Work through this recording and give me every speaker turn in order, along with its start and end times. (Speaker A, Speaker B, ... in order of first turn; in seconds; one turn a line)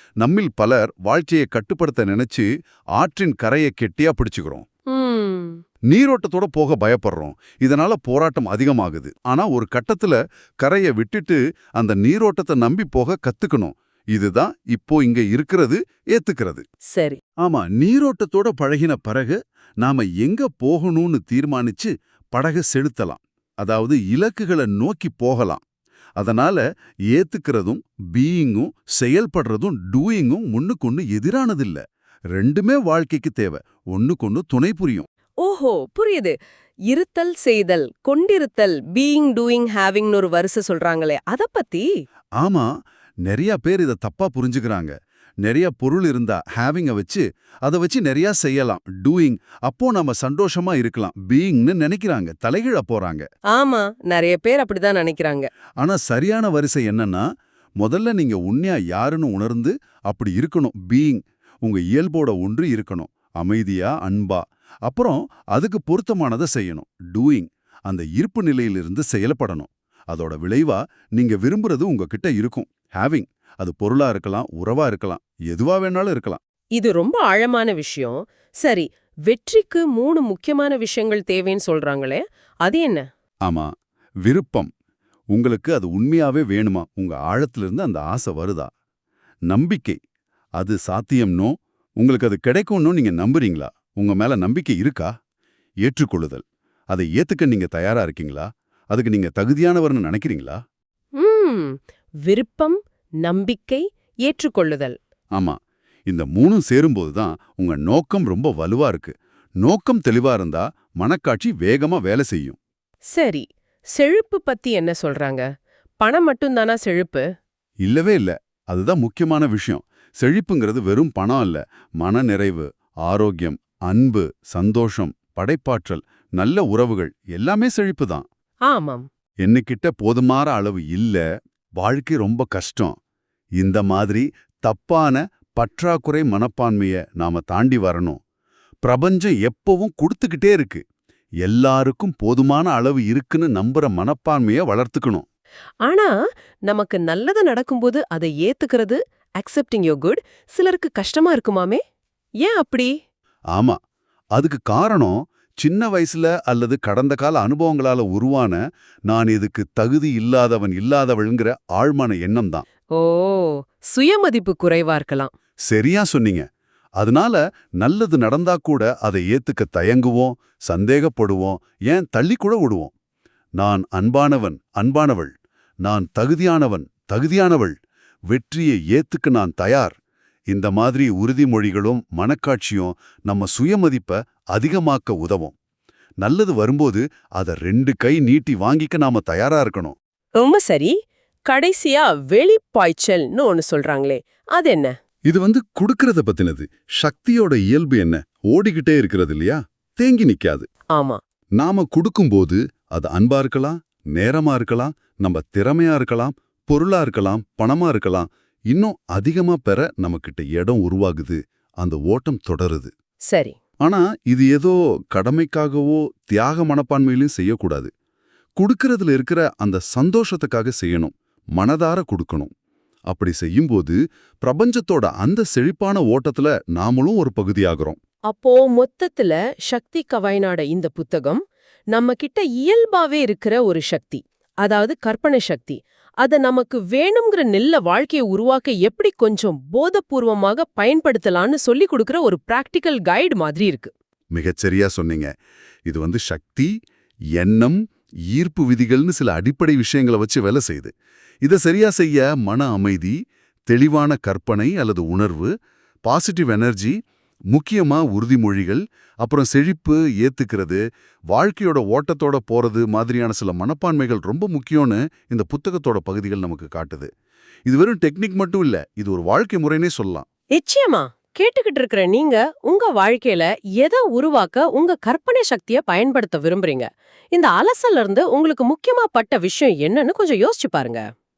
Speaker A: 0.2-4.6
Speaker B: 4.9-5.6
Speaker A: 5.9-16.6
Speaker B: 16.9-17.2
Speaker A: 17.4-25.6
Speaker A: 26.2-31.8
Speaker A: 32.4-35.1
Speaker B: 35.4-36.4
Speaker B: 36.9-41.9
Speaker A: 42.4-42.7
Speaker A: 43.3-53.3
Speaker B: 53.5-55.5
Speaker A: 55.8-57.2
Speaker A: 57.8-76.4
Speaker B: 76.8-83.0
Speaker A: 83.5-83.7
Speaker A: 84.2-84.7
Speaker A: 85.3-88.7
Speaker A: 89.5-90.0
Speaker A: 90.6-95.1
Speaker A: 95.8-100.6
Speaker B: 101.2-105.0
Speaker A: 105.4-112.6
Speaker B: 113.1-115.5
Speaker B: 116.0-117.2
Speaker A: 117.8-128.2
Speaker B: 128.7-129.1
Speaker A: 129.4-131.2
Speaker A: 131.8-133.0
Speaker A: 133.6-138.2
Speaker A: 138.8-140.8
Speaker A: 141.4-145.2
Speaker B: 145.8-146.1
Speaker B: 146.7-151.8
Speaker B: 152.4-152.9
Speaker A: 154.4-162.6
Speaker B: 162.9-165.3
Speaker A: 165.7-166.5
Speaker A: 167.0-172.9
Speaker A: 173.6-175.3
Speaker A: 175.8-177.8
Speaker A: 178.3-179.9
Speaker A: 180.5-185.5
Speaker A: 186.2-190.0
Speaker B: 190.4-190.9
Speaker B: 191.5-194.9
Speaker A: 195.3-200.7
Speaker A: 201.6-212.9
Speaker B: 213.3-213.6
Speaker A: 213.8-217.9
Speaker A: 218.6-222.5
Speaker A: 223.1-228.0
Speaker B: 228.3-231.4
Speaker B: 231.9-243.9
Speaker A: 244.3-245.3
Speaker A: 245.9-246.7
Speaker A: 247.4-247.8
Speaker A: 248.3-250.9
Speaker A: 251.4-253.2
Speaker A: 253.7-255.5
Speaker A: 256.1-257.0
Speaker A: 257.5-267.1
Speaker A: 267.7-270.2
Speaker B: 270.6-281.0